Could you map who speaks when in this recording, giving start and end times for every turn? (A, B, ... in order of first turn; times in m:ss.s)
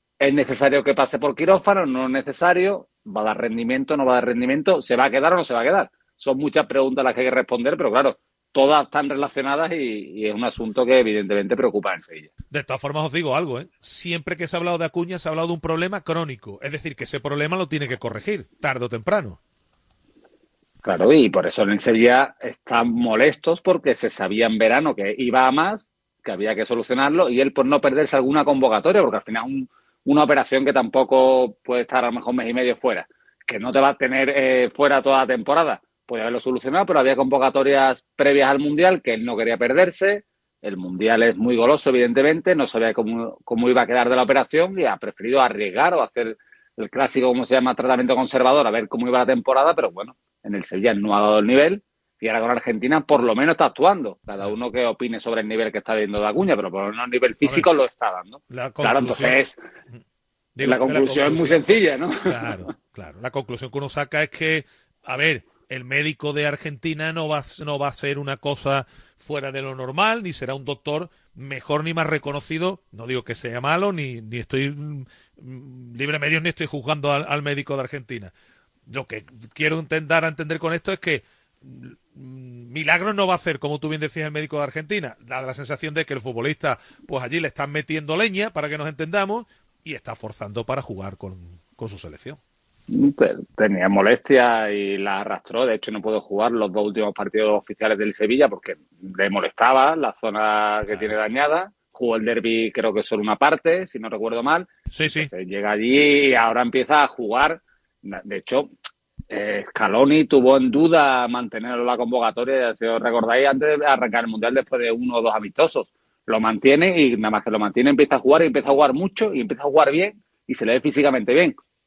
0:00.2-0:12.3 A
0:12.5-0:19.4 B
0:20.8-0:59.6 A
0:58.5-0:59.4 B
1:00.6-1:18.3 B
1:00.6-1:02.6 A
1:18.9-1:32.4 B
1:32.9-1:48.7 A
1:40.9-1:41.1 B
1:44.9-1:45.3 B
1:49.3-2:01.6 A